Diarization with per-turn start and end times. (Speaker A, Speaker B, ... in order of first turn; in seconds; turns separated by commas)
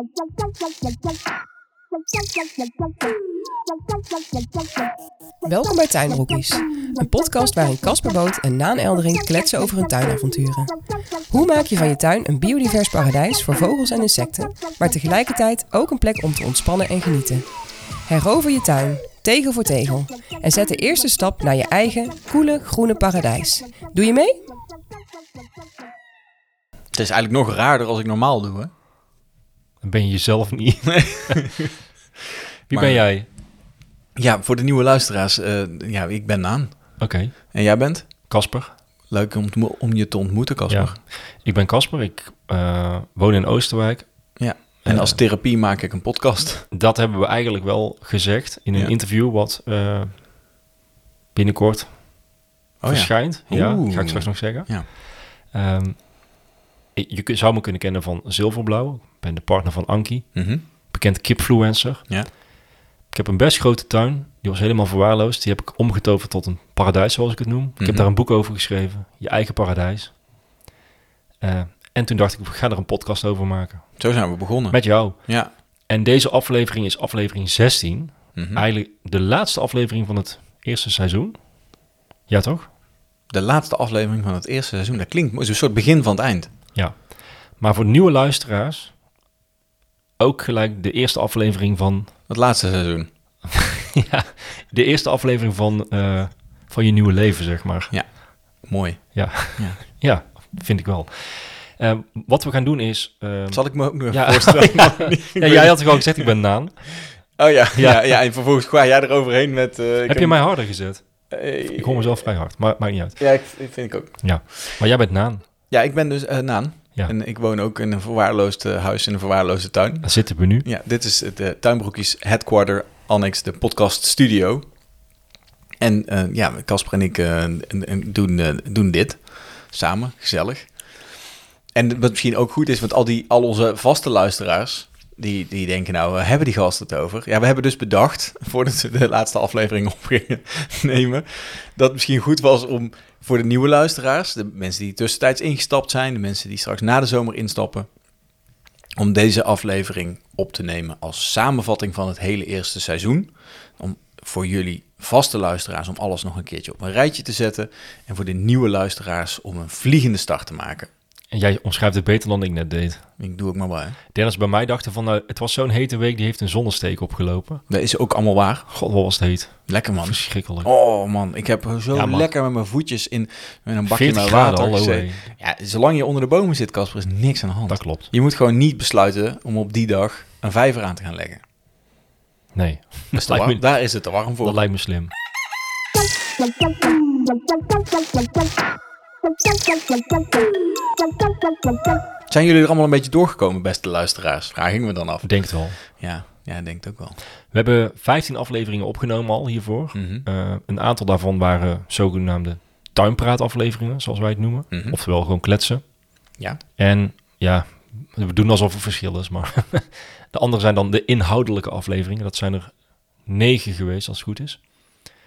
Speaker A: 5.4-10.8, Speaker A: 11.3-17.5, Speaker A: 18.1-24.4, Speaker B: 26.9-28.7, Speaker C: 29.8-31.5, Speaker B: 30.9-31.7, Speaker B: 32.7-33.0, Speaker C: 32.7-33.3, Speaker B: 34.2-37.0, Speaker C: 37.0-37.4, Speaker B: 37.5-38.1, Speaker C: 38.3-38.7, Speaker B: 39.1-41.0, Speaker C: 40.7-44.1, Speaker B: 44.4-46.7, Speaker C: 44.8-45.2, Speaker C: 46.7-50.1, Speaker C: 51.4-52.0, Speaker B: 52.8-54.9, Speaker C: 52.9-56.1, Speaker C: 57.0-62.0, Speaker B: 60.4-60.6, Speaker C: 63.1-70.2, Speaker B: 67.8-68.1, Speaker C: 71.4-74.0, Speaker B: 74.0-75.5, Speaker C: 74.7-75.3, Speaker C: 75.9-81.4, Speaker B: 78.4-78.6, Speaker C: 82.3-82.7, Speaker B: 83.3-86.5, Speaker C: 86.8-89.0, Speaker C: 90.2-92.1, Speaker B: 92.3-93.1, Speaker C: 93.5-97.9, Speaker B: 97.9-99.8, Speaker C: 99.1-107.0, Speaker B: 103.5-106.3, Speaker B: 107.0-110.4, Speaker C: 107.8-108.2, Speaker C: 110.1-111.0, Speaker B: 111.3-112.3, Speaker C: 111.7-113.2, Speaker B: 113.2-114.8, Speaker C: 114.2-115.4, Speaker B: 115.7-120.1, Speaker C: 120.0-120.7, Speaker B: 120.6-124.7, Speaker B: 125.8-130.8, Speaker B: 131.8-147.9, Speaker B: 149.0-160.9, Speaker C: 161.3-163.1, Speaker B: 163.2-164.0, Speaker C: 164.1-167.6, Speaker B: 167.7-168.7, Speaker C: 168.7-170.7, Speaker B: 169.7-181.4, Speaker C: 171.9-172.3, Speaker C: 173.9-175.3, Speaker C: 177.7-178.1, Speaker C: 182.5-183.6, Speaker B: 183.1-184.6, Speaker C: 184.4-185.1, Speaker B: 192.3-197.2, Speaker C: 195.2-195.8, Speaker C: 197.5-205.9, Speaker B: 199.9-200.3, Speaker B: 204.7-205.0, Speaker C: 206.8-212.7, Speaker C: 213.2-214.6